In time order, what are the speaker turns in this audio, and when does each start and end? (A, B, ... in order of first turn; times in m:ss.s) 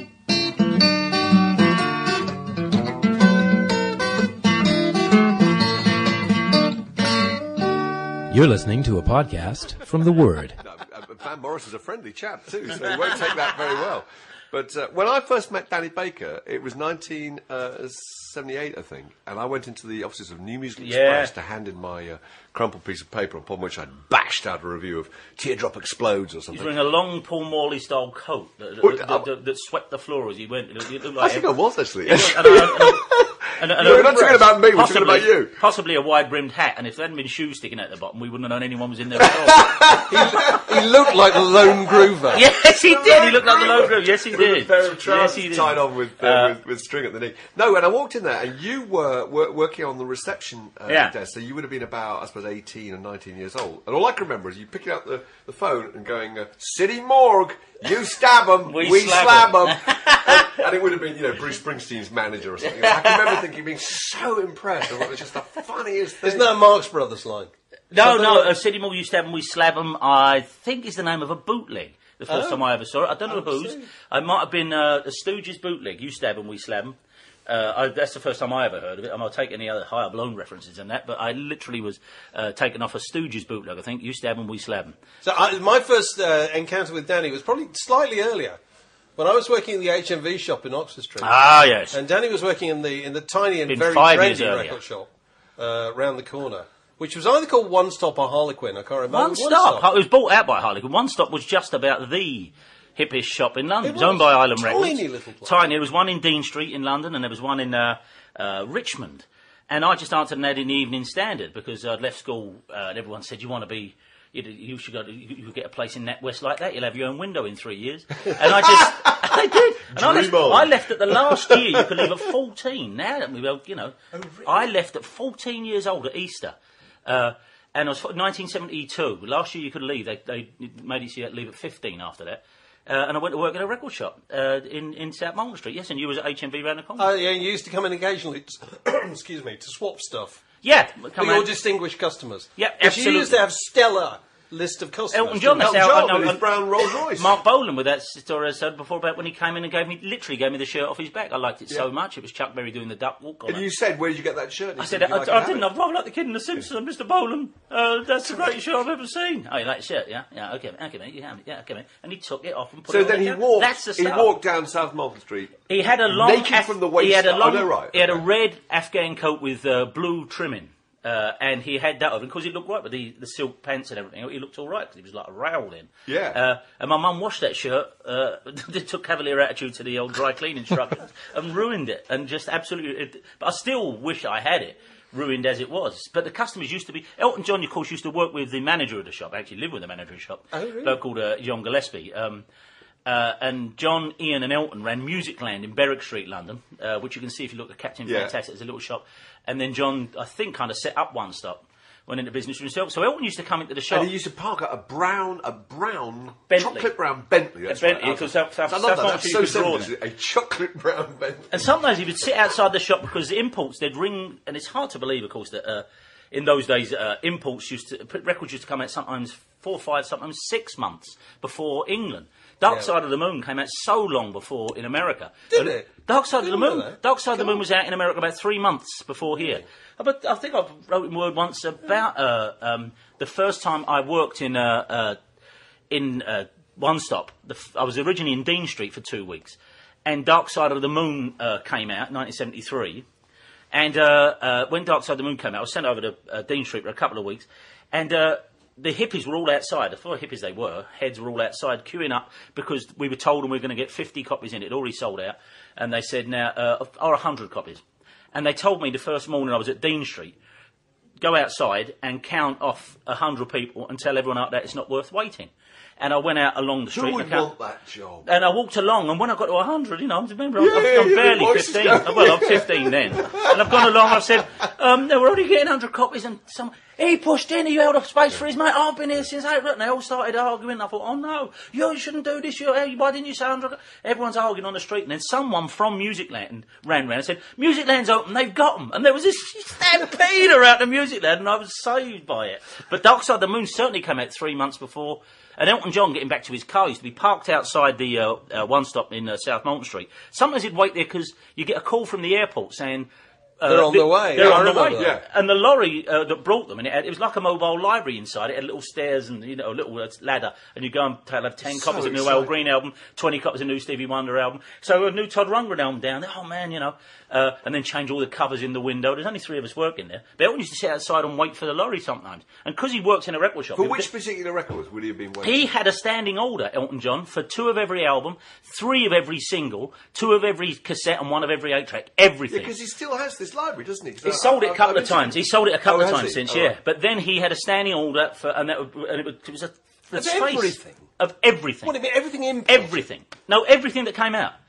0:08.3-0:10.6 A
0:10.6-0:26.7 B
0:20.8-0:21.3 C
0:26.5-0:31.5 C
0:28.8-0:29.3 B
0:31.0-0:35.5 B
0:32.0-0:33.0 C
0:33.6-0:39.8 C
0:39.2-1:06.5 B
0:40.1-0:42.4 D
0:42.3-0:46.6 C
0:50.9-0:51.1 C
0:58.7-1:00.6 C
1:02.6-1:03.4 C
1:06.2-1:08.5 D
1:07.9-1:25.0 C
1:12.3-1:12.6 D
1:13.2-1:13.9 D
1:25.2-1:28.6 D
1:29.2-1:39.9 D
1:31.2-1:32.0 C
1:33.7-1:34.8 C
1:39.1-2:17.1 C
1:43.8-1:45.7 D
1:58.3-2:02.1 B
2:17.0-2:20.4 D
2:20.6-2:21.5 C
2:21.2-2:25.7 D
2:22.6-2:23.4 C
2:25.1-2:33.6 C
2:25.6-2:27.4 B
2:33.4-2:35.7 B
2:34.8-2:44.3 C
2:42.9-2:48.2 B
2:45.7-3:12.4 C
2:56.1-2:56.4 B
3:10.5-3:11.0 D
3:13.0-3:24.1 C
3:18.0-3:18.3 B
3:23.9-3:31.7 B
3:26.5-3:26.9 C
3:27.7-3:29.9 C
3:31.5-3:55.2 C
3:45.5-3:47.6 D
3:49.3-3:49.6 D
3:55.9-4:03.0 C
4:03.7-4:17.8 C
4:18.3-4:20.4 C
4:21.2-4:27.5 C
4:26.9-4:28.3 B
4:28.2-5:03.1 C
4:30.6-4:33.9 B
5:03.6-5:24.1 C
5:03.6-5:05.1 D
5:04.4-5:05.2 B
5:11.7-5:12.5 B
5:23.7-5:25.6 B
5:25.4-5:32.7 C
5:32.5-5:36.8 B
5:34.2-5:41.9 C
5:40.1-5:41.0 D
5:41.8-5:43.0 D
5:42.6-5:44.6 C